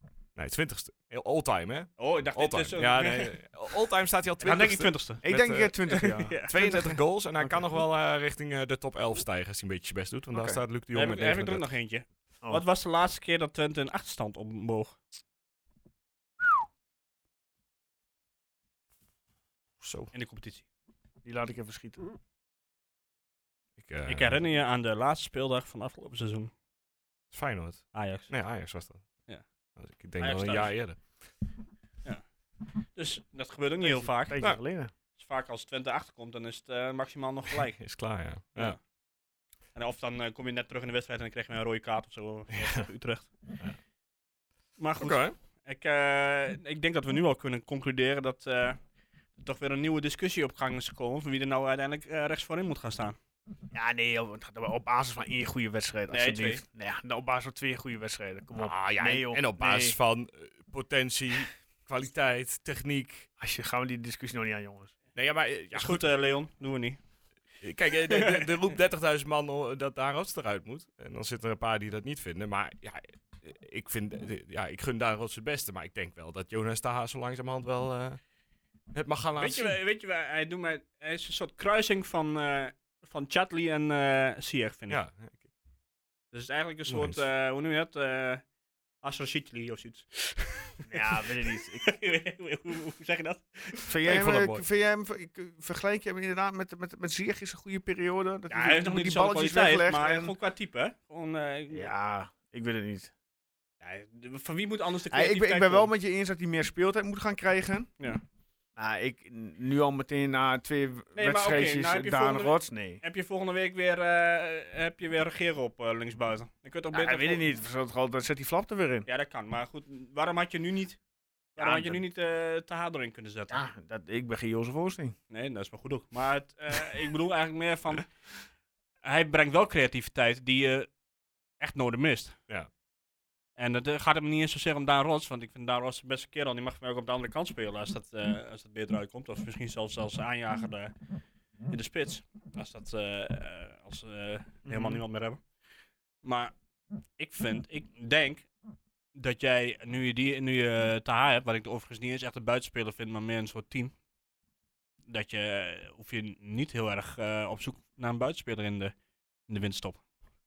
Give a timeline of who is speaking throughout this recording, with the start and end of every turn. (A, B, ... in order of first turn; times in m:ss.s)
0:00.4-0:05.8 A
0:02.0-0:03.5 B
0:04.4-0:05.2 B
0:05.2-0:06.9 C
0:05.9-0:06.9 B
0:06.4-0:11.6 A
0:10.3-0:10.6 C
0:10.9-0:15.0 B
0:19.8-0:20.1 A
0:20.1-0:20.6 B
0:21.2-0:22.0 C
0:23.8-0:24.4 A
0:24.1-0:26.5 B
0:27.3-0:29.2 A
0:27.9-0:28.3 B
0:29.8-0:31.0 A
0:30.2-0:30.8 B
0:33.0-0:34.4 B
0:33.8-0:34.9 C
0:35.2-0:37.8 B
0:37.8-0:38.8 A
0:39.8-0:43.3 B
0:42.6-0:42.8 A
0:44.8-0:48.8 B
0:45.0-0:45.4 A
0:49.4-0:53.2 B
0:53.7-1:00.0 C
0:56.1-0:56.6 B
0:58.6-1:03.3 A
1:03.4-1:04.9 C
1:05.2-1:06.0 A
1:05.7-1:07.0 B
1:07.6-1:18.2 A
1:08.1-1:08.6 B
1:18.9-1:19.8 A
1:19.4-1:25.0 B
1:24.9-1:25.4 A
1:26.3-1:28.4 B
1:26.9-1:27.2 A
1:29.0-1:33.8 B
1:30.9-1:32.0 C
1:33.9-1:40.3 C
1:34.0-1:34.6 A
1:38.5-1:41.9 B
1:41.7-1:43.1 C
1:43.8-1:45.9 B
1:45.1-1:47.9 C
1:48.8-1:53.0 C
1:51.2-1:57.4 B
1:56.9-1:59.1 C
1:59.1-2:01.0 B
2:01.6-2:03.6 B
2:01.6-2:02.0 C
2:03.5-2:05.2 C
2:05.3-2:08.1 B
2:09.0-2:10.9 B
2:11.6-2:12.4 B
2:13.6-2:20.9 B
2:21.7-2:25.4 B
2:24.7-2:25.0 C
2:26.2-2:26.5 B
2:27.2-2:28.5 B
2:29.2-2:33.9 B
2:35.1-2:38.9 B
2:39.5-2:40.0 B